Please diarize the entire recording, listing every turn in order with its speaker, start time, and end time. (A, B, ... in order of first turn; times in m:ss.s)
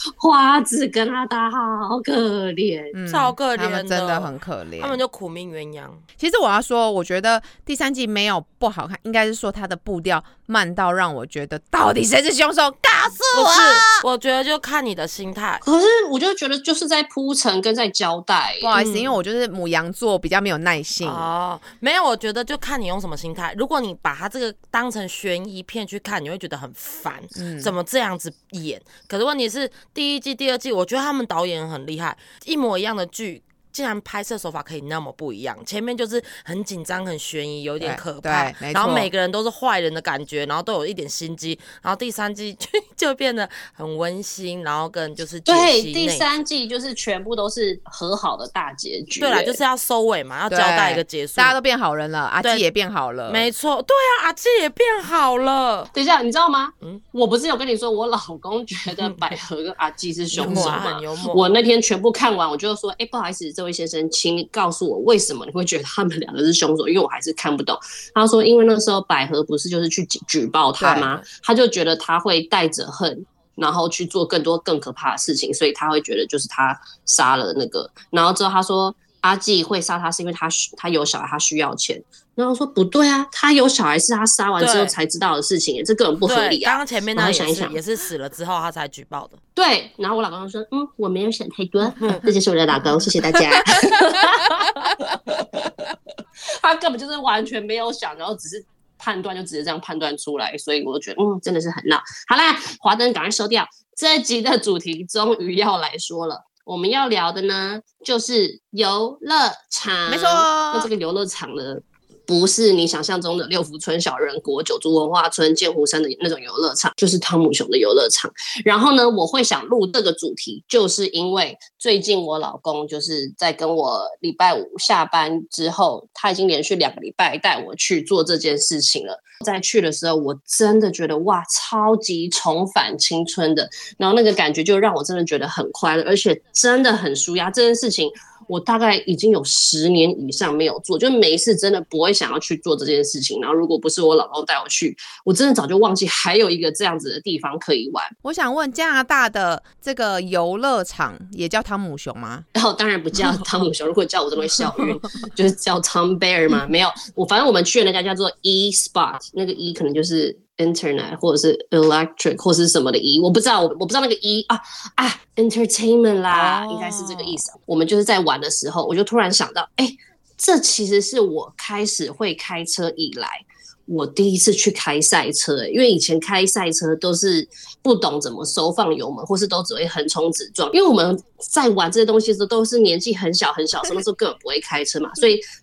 0:00.2-0:02.9 A
0:02.9-0:05.0 B
0:03.1-0:06.0 C
0:06.2-0:14.0 B
0:13.3-0:15.6 C
0:15.6-0:18.7 A
0:18.6-0:21.3 B
0:18.7-0:19.1 C
0:21.0-0:46.4 C
0:27.3-0:27.7 B
0:37.8-0:39.1 B
0:45.5-0:49.6 A
0:49.2-0:51.6 C
0:50.5-0:53.4 B
0:53.3-0:55.9 C
0:55.9-1:27.8 A
1:00.3-1:01.5 C
1:00.4-1:00.8 B
1:10.8-1:11.2 B
1:24.6-1:25.0 C
1:26.2-1:29.4 C
1:29.6-1:36.0 A
1:36.6-2:28.1 A
1:50.1-1:50.9 B
2:28.2-2:32.4 B
2:32.5-3:05.4 A
2:46.3-2:47.4 B